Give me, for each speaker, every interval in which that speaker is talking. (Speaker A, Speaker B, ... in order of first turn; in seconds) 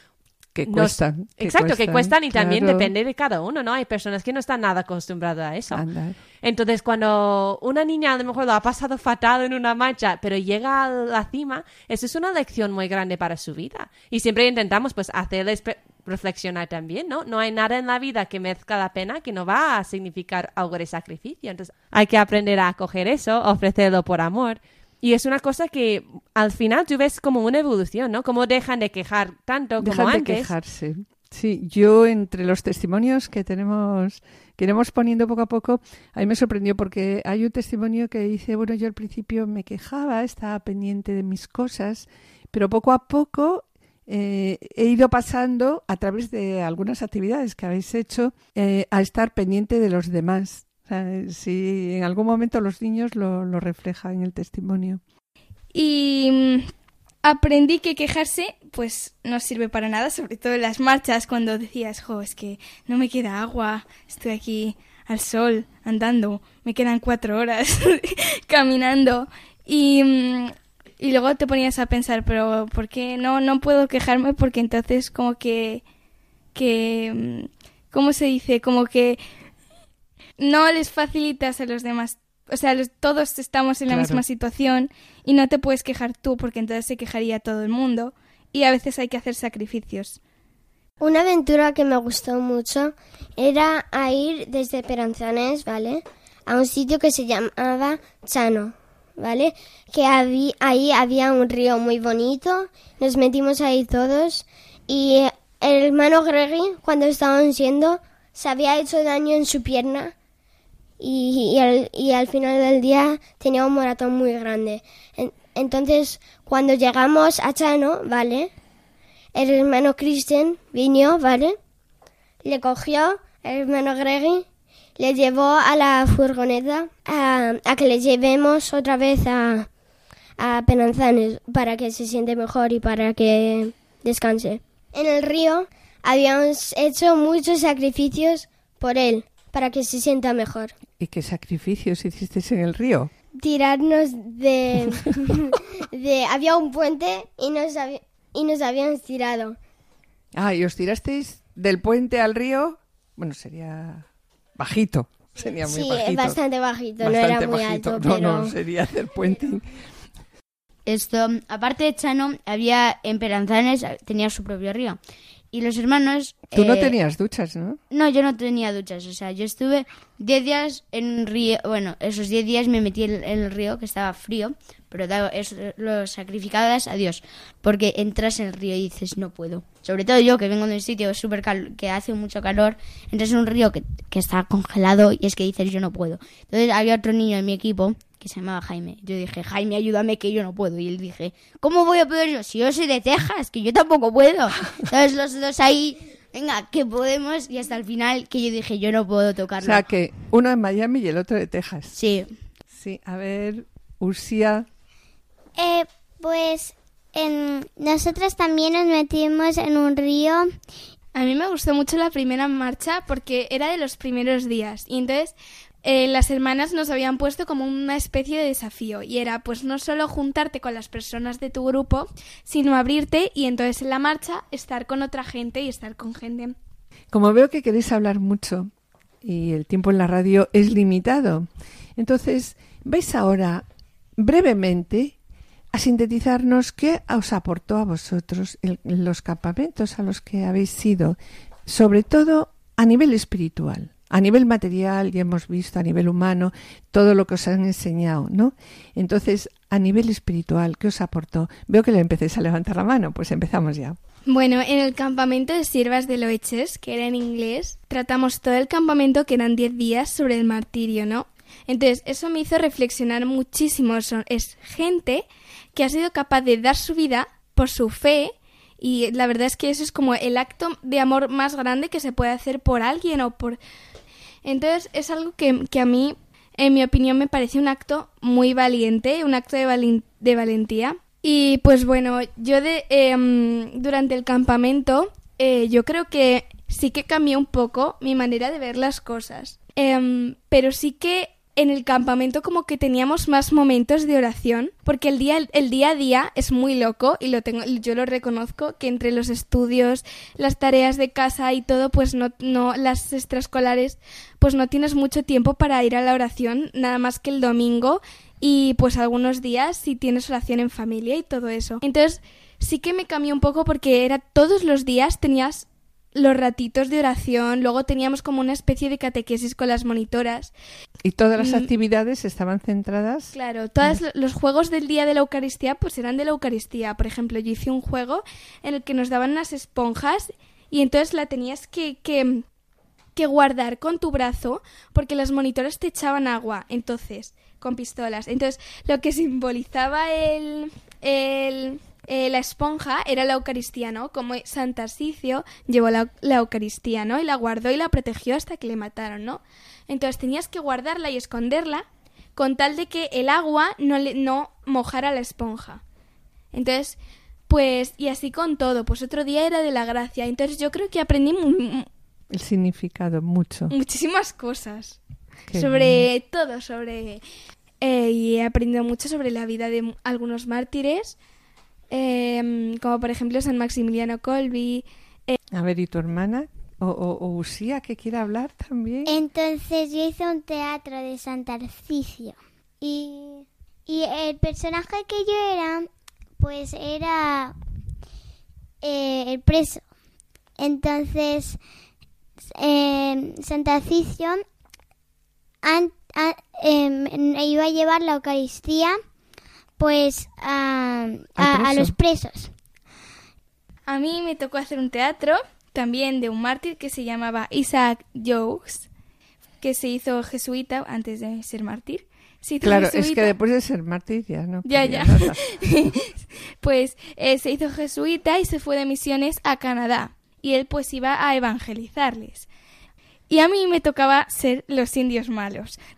Speaker A: 0.5-2.9, 5.7-6.2, 29.8-55.0, 83.9-84.2, 141.0-143.1, 150.3-154.1, 154.6-156.4, 157.0-159.7, 166.5-167.8, 199.6-201.9, 202.7-204.7, 227.1-228.7, 229.2-233.6, 234.2-235.2, 235.7-254.0, 321.0-324.0, 362.3-363.7, 365.5-366.1, 375.5-379.1, 401.4-402.0, 412.6-415.4
Speaker B: 0.7-5.8, 6.4-30.5
Speaker C: 55.7-56.7, 57.2-75.8, 76.5-79.2, 80.4-90.2, 211.1-226.5, 254.2-273.6, 274.4-320.5, 321.4-321.7, 323.3-332.4, 333.1-351.8, 352.4-355.8, 356.5-357.0, 357.5-361.9, 363.7-365.0, 365.5-367.2, 367.8-371.1, 371.9-375.4, 403.9-408.9, 409.6-413.3, 414.7-422.5, 423.3-425.8
Speaker D: 91.0-110.1, 111.0-118.5, 119.3-121.5, 122.4-124.4, 125.0-129.7, 130.4-140.7, 143.4-149.6, 155.6-158.5
Speaker E: 160.8-165.0, 165.5-166.9, 167.9-199.8, 201.9-202.3
Speaker F: 205.6-210.5, 379.1-385.9, 386.4-387.5, 388.8-389.8, 390.6-391.6, 392.6-394.4, 395.6-399.0, 399.8-402.5